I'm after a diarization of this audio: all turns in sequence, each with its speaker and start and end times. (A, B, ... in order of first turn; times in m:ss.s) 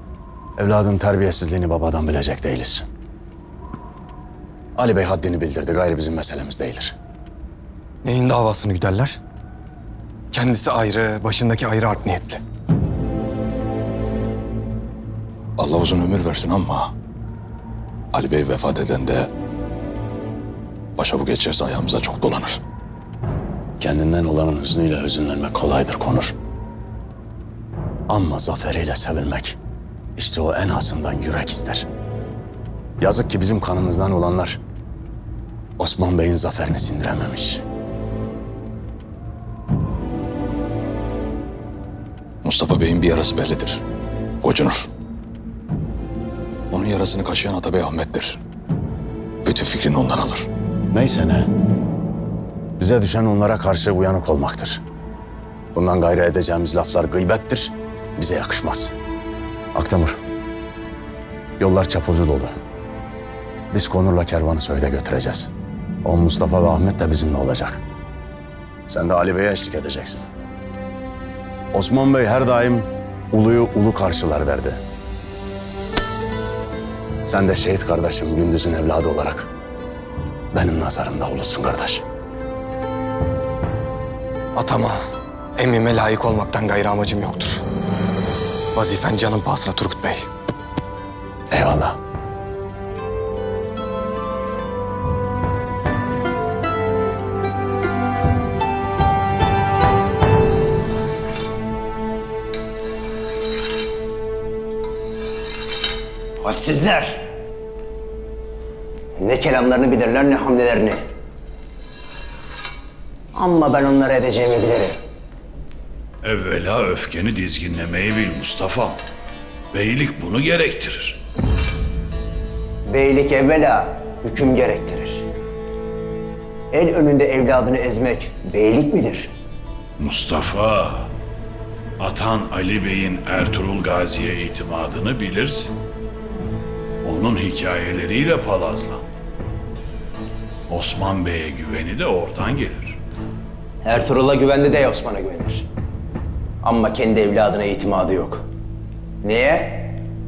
0:00.6-0:02.8 A
0:04.8-0:06.9 A
0:08.0-0:09.2 B
0:10.3-0:12.4 B
0:15.6-0:16.9 C
0:18.1-0:19.3 C
0:21.0-0:22.6 C
0:23.8-0:26.3 A
0:28.1-0:29.6 A
0:30.2-0:31.8 A
0:33.0-0:34.6 A
0:35.8-0:37.6 A
0:42.4-0:43.8 C
0:44.4-0:44.9 C
0:46.7-0:48.4 C
0:49.4-0:50.5 C
0:50.9-0:51.5 A
0:52.8-0:54.8 A
0:55.7-0:58.9 A
0:59.7-1:00.2 A
1:01.6-1:02.6 A
1:03.7-1:05.5 A
1:06.0-1:07.8 A
1:08.9-1:10.2 A
1:11.7-1:14.8 A
1:17.2-1:19.5 A
1:20.5-1:22.0 A
1:24.5-1:25.0 B
1:25.6-1:27.6 B
1:28.7-1:30.3 B
1:31.5-1:32.0 A
1:46.4-1:47.3 D
1:49.2-1:51.0 D
1:53.3-1:55.0 D
1:56.2-1:59.0 E
1:59.7-2:01.2 E
2:02.8-2:05.2 D
2:06.7-2:09.3 D
2:10.0-2:11.1 E
2:12.0-2:15.8 E
2:17.0-2:19.1 E
2:20.7-2:23.0 E
2:23.8-2:25.6 D
2:26.6-2:28.4 D
2:29.2-2:30.0 D